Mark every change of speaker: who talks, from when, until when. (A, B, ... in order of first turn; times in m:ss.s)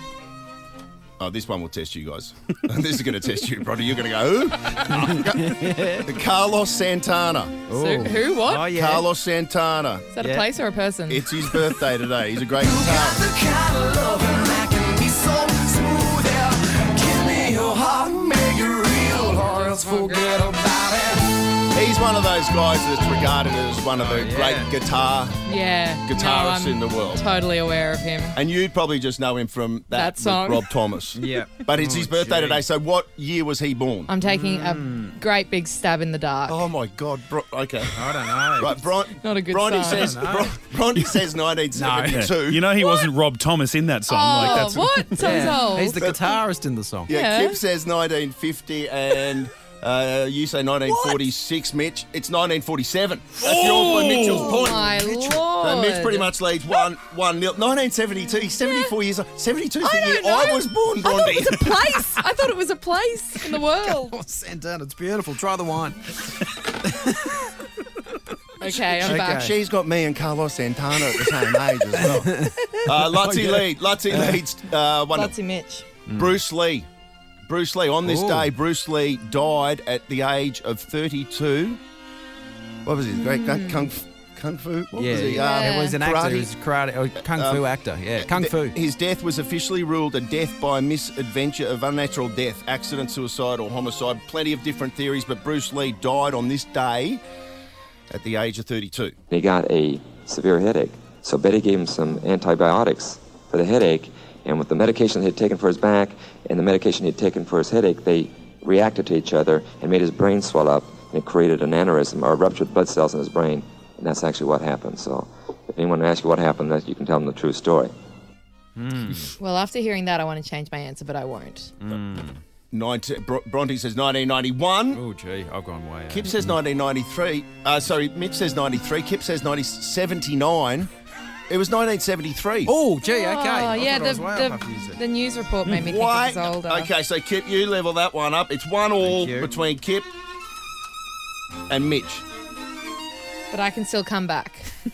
0:01.2-0:07.6 A
0:04.9-0:06.1 B
0:07.7-0:09.1 B
0:07.7-0:08.7 C
0:08.7-0:10.1 A
0:10.1-0:11.2 C
0:10.2-0:10.4 B
0:11.1-0:13.2 A
0:12.6-0:21.5 D
0:19.6-0:20.4 B
0:21.7-0:25.4 A
0:23.9-0:24.7 B
0:25.4-0:28.4 C
0:26.0-0:27.2 A
0:28.3-0:34.1 A
0:29.9-0:30.7 C
0:31.1-0:32.6 B
0:34.1-0:36.6 C
0:34.2-0:35.2 B
0:36.5-0:38.0 A
0:37.9-0:38.8 B
0:38.5-0:42.7 A
0:39.2-0:40.1 C
0:39.8-0:40.6 B
0:41.7-0:42.3 B
0:42.1-0:45.4 E
0:42.8-0:43.1 C
0:44.1-0:46.0 C
0:44.4-0:44.8 A
0:45.2-0:47.1 B
0:46.0-0:46.2 A
0:47.1-0:54.9 A
0:47.1-0:47.6 C
0:53.4-0:54.6 E
0:53.6-0:55.4 B
0:54.5-0:56.3 C
0:55.6-1:02.0 A
0:58.6-0:58.9 C
0:59.8-1:04.2 C
1:03.6-1:07.5 B
1:08.6-1:09.5 C
1:08.6-1:15.3 A
1:09.0-1:09.5 B
1:11.9-1:14.4 B
1:15.1-1:15.9 C
1:16.1-1:16.4 B
1:16.2-1:16.9 A
1:17.5-1:21.8 A
1:18.0-1:18.5 B
1:22.8-1:26.5 A
1:23.3-1:23.9 C
1:24.9-1:28.8 B
1:25.4-1:25.9 C
1:27.3-1:27.6 A
1:28.2-1:37.2 A
1:38.1-1:39.1 A
1:39.3-1:57.9 F
1:58.8-1:59.3 B
1:59.4-2:01.7 C
2:01.8-2:02.4 B
2:02.7-2:05.0 A
2:04.9-2:06.5 B
2:06.1-2:10.9 A
2:11.5-2:12.7 A
2:12.6-2:15.0 B
2:13.2-2:16.9 C
2:15.7-2:20.1 A
2:19.0-2:19.6 B
2:21.7-2:22.2 A
2:23.5-2:24.7 C